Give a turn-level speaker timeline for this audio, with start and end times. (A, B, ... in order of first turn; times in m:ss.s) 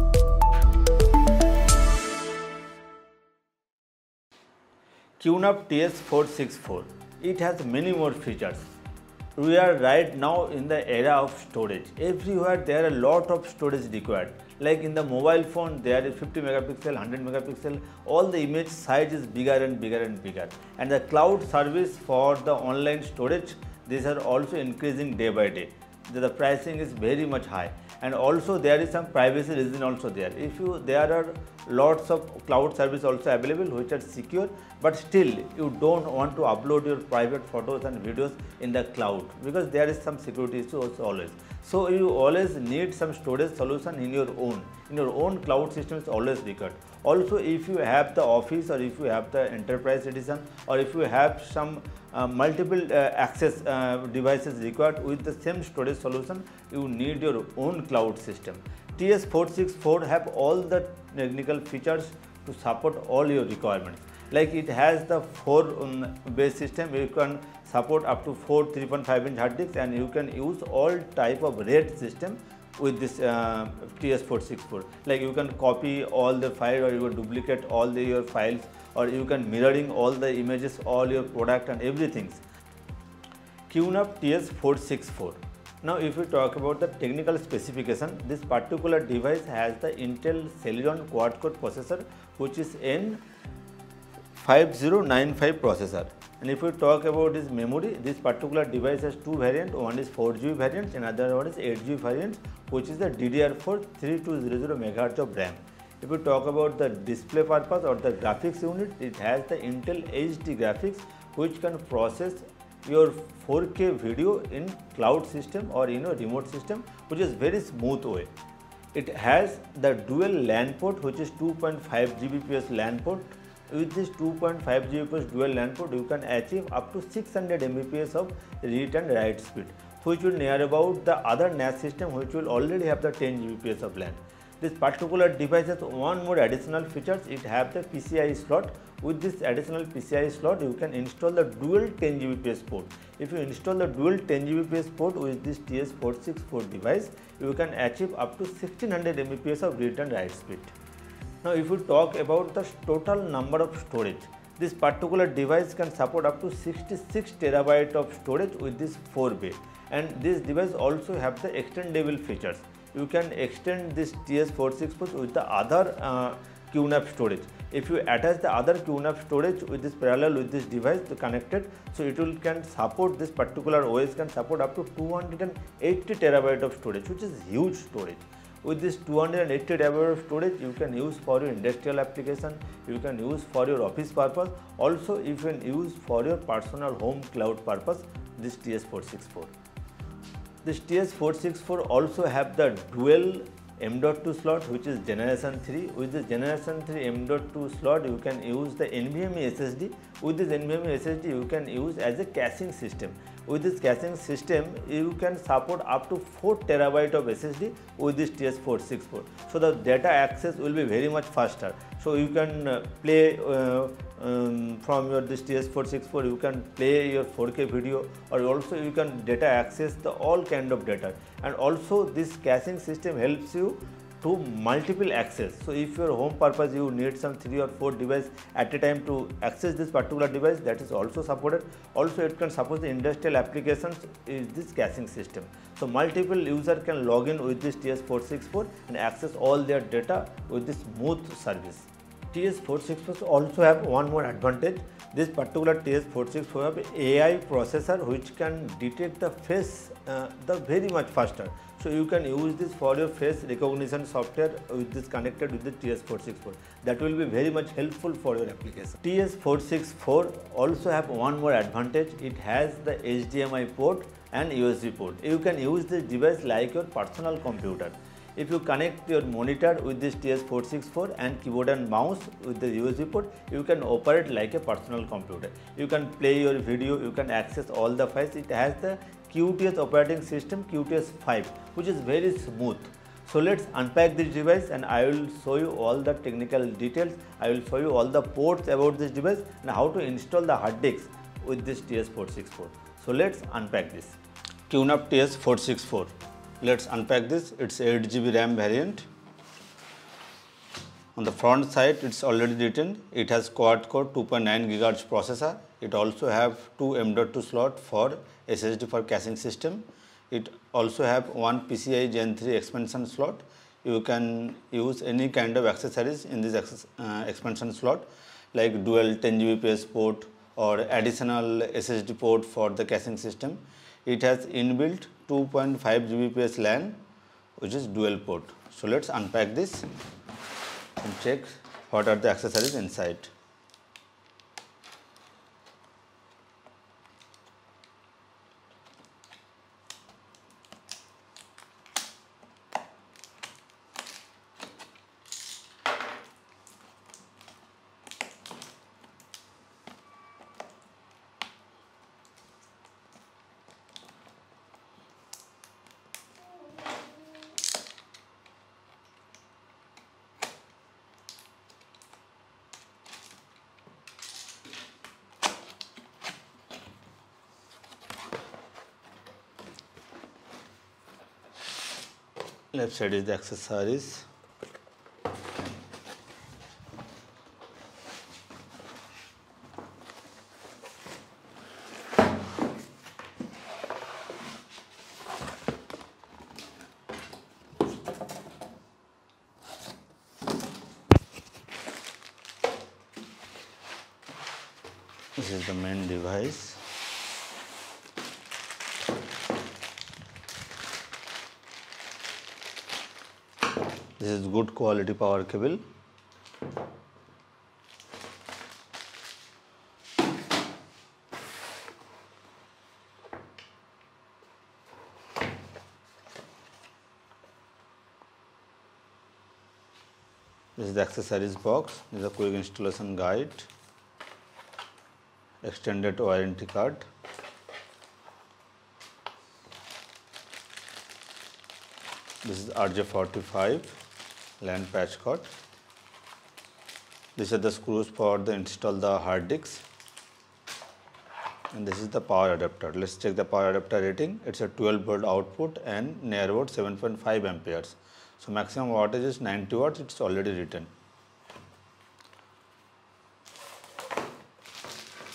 0:05.2-0:08.7 A
0:09.4-1:22.4 A
1:23.7-1:33.2 A
1:34.4-1:58.3 A
1:58.9-2:30.7 A
2:31.4-3:09.5 A
3:10.6-4:54.2 A
4:54.7-4:59.1 A
5:01.2-5:27.0 A
5:27.6-5:29.9 A
5:31.0-5:33.3 A
6:12.7-6:14.3 A
6:35.4-6:36.8 A
6:44.2-6:45.8 A
7:00.8-7:03.7 A
7:05.6-7:07.1 A
7:12.4-7:14.0 A
7:14.6-7:15.5 A
7:17.4-7:19.8 A
7:21.7-7:30.9 A